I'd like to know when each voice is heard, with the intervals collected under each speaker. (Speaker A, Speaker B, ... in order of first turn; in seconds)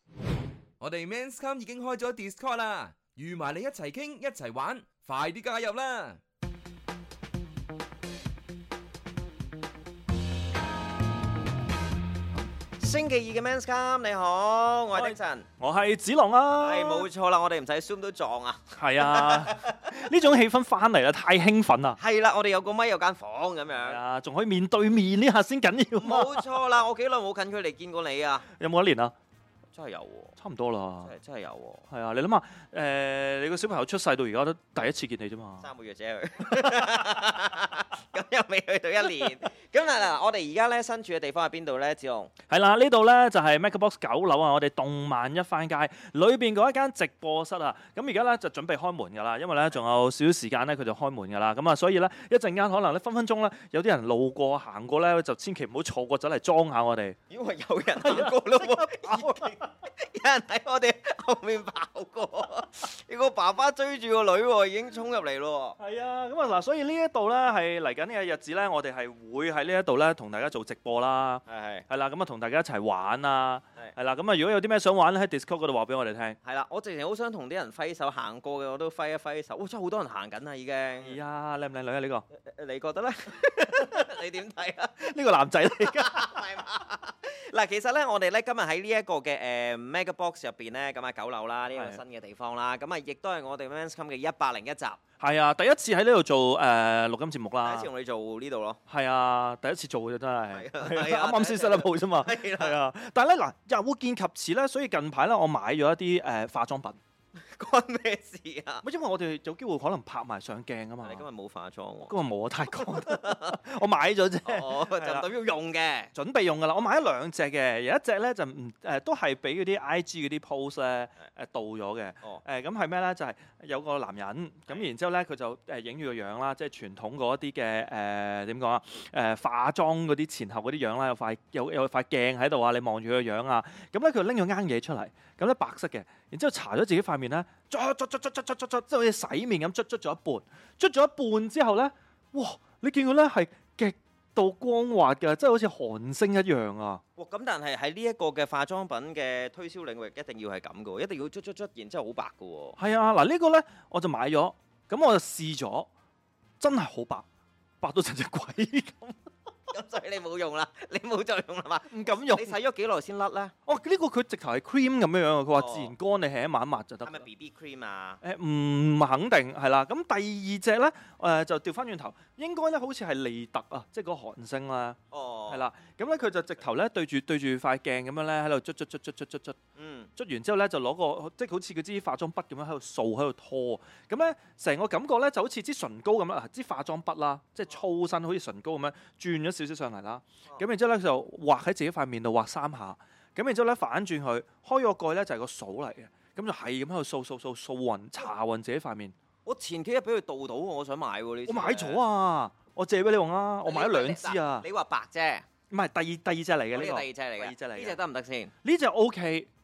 Speaker A: 0.8-6.2
Speaker B: 12.8-15.5, 16.6-20.0, 22.0-24.0, 26.0-28.5, 29.7-30.4, 31.0-31.9, 35.6-42.3, 57.3-65.8, 71.5-71.9, 76.4-81.2, 82.3-85.1, 85.7-95.0, 97.6-98.8, 100.5-102.8, 107.3-108.8, 111.0-112.1, 112.7-113.6, 114.4-116.1, 147.2-152.8, 159.7-163.5, 165.6-165.9, 167.0-168.2, 175.1-175.6, 179.8-180.1, 199.5-202.0, 203.7-205.5, 206.7-208.5
Speaker C: 14.9-17.1, 18.8-22.0, 23.8-26.4, 28.5-29.1, 30.4-31.1, 31.9-35.7, 36.6-37.1, 42.5-57.2, 58.0-59.7, 65.8-76.4, 81.0-82.2, 85.0-86.5, 91.7-92.0, 95.2-97.9, 98.9-107.0, 108.8-111.2, 112.1-115.3, 116.1-147.0, 152.8-155.9, 156.6-157.3, 157.8-159.3, 161.9-162.6, 163.7-167.3, 168.2-179.6, 180.2-199.2, 201.5-204.7, 205.7-208.0, 208.6-209.5